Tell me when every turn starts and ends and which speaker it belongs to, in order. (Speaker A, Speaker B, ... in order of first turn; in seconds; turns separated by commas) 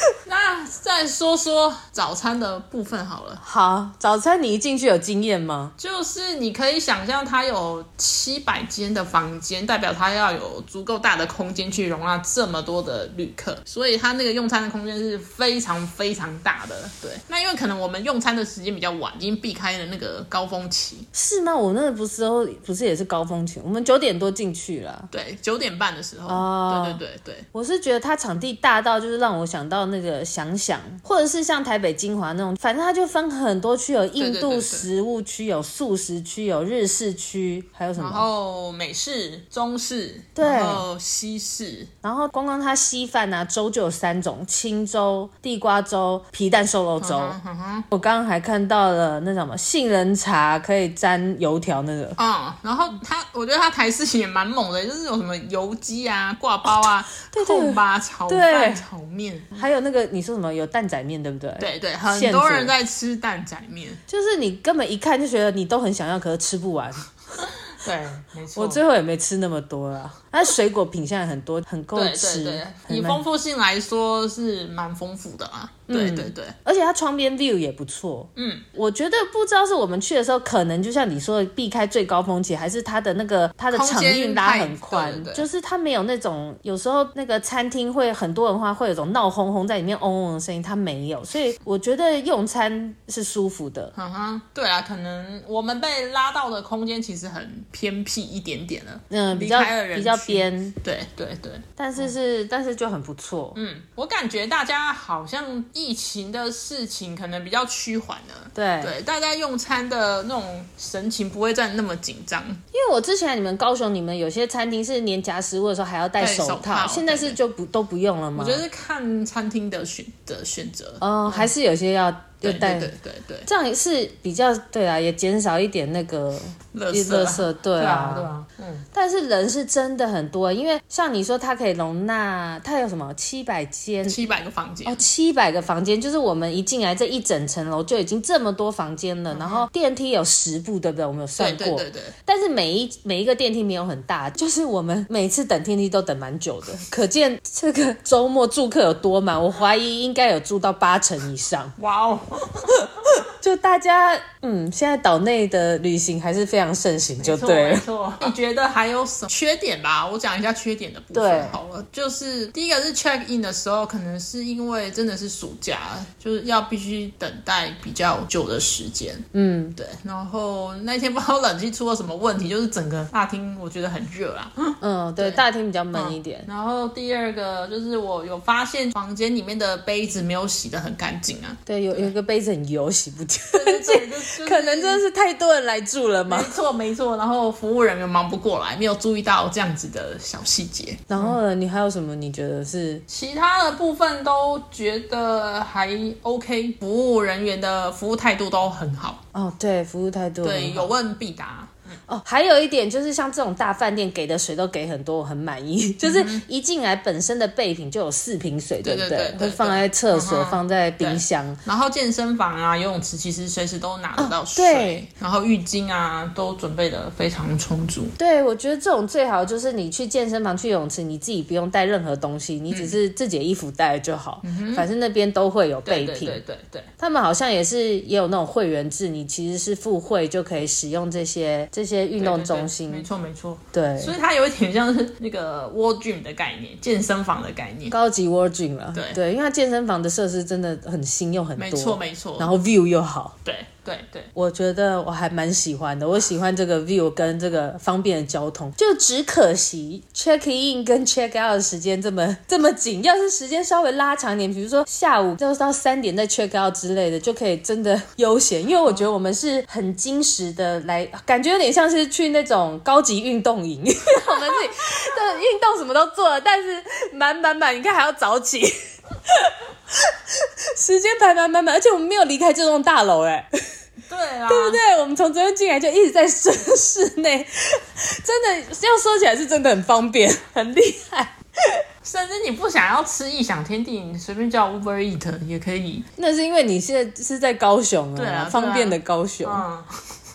Speaker A: 0.3-3.4, Speaker B: 3.4-5.8, Speaker A: 5.8-21.1, Speaker B: 21.1-25.1, Speaker A: 25.1-27.4, Speaker B: 26.3-27.0, Speaker B: 27.5-38.3, Speaker A: 34.2-34.9, Speaker A: 38.0-41.9, Speaker B: 40.4-40.9, Speaker B: 42.0-47.4, Speaker A: 47.0-47.9, Speaker B: 47.9-52.2, Speaker A: 52.2-59.5, Speaker B: 57.3-58.9, Speaker B: 59.5-62.8, Speaker A: 61.6-64.0, Speaker B: 64.1-67.1, Speaker A: 67.8-68.8, Speaker B: 68.5-73.2, Speaker A: 71.9-76.5, Speaker B: 75.9-93.9, Speaker A: 78.4-78.7, Speaker A: 83.7-85.5, Speaker A: 94.0-102.1, Speaker B: 99.1-100.8, Speaker B: 101.8-103.6, Speaker A: 103.5-112.6, Speaker B: 108.5-109.0, Speaker B: 112.7-118.6, Speaker A: 116.2-117.4, Speaker A: 118.3-121.5, Speaker B: 121.0-122.9, Speaker A: 122.4-123.5, Speaker B: 123.5-128.3, Speaker A: 126.7-128.9, Speaker B: 128.9-134.2, Speaker A: 134.1-135.1, Speaker B: 134.8-151.8, Speaker A: 139.3-139.7, Speaker A: 141.4-142.1, Speaker A: 151.8-152.8, Speaker B: 153.4-158.3, Speaker A: 157.2-175.4, Speaker B: 161.1-161.6, Speaker B: 169.3-169.8, Speaker B: 174.8-176.5, Speaker A: 175.9-182.1, Speaker B: 181.7-186.6, Speaker A: 183.5-185.0, Speaker A: 186.3-191.4, Speaker B: 191.1-193.0, Speaker A: 193.1-199.2, Speaker B: 199.3-200.9, Speaker A: 200.4-202.0, Speaker B: 202.1-211.6, Speaker A: 206.0-206.4, Speaker A: 208.8-218.1, Speaker B: 214.2-215.1, Speaker B: 218.2-226.4, Speaker A: 222.7-223.0, Speaker A: 224.4-224.9, Speaker A: 225.8-226.9, Speaker B: 227.0-233.1, Speaker A: 232.2-238.0, Speaker B: 233.7-234.2, Speaker B: 237.9-243.4, Speaker A: 238.9-239.2, Speaker A: 241.6-242.5, Speaker A: 243.4-244.3, Speaker B: 244.3-268.8, Speaker B: 269.3-269.6, Speaker B: 270.8-273.6, Speaker A: 274.1-274.8, Speaker B: 274.5-281.8, Speaker A: 282.0-286.1, Speaker B: 286.2-289.7, Speaker A: 288.1-290.0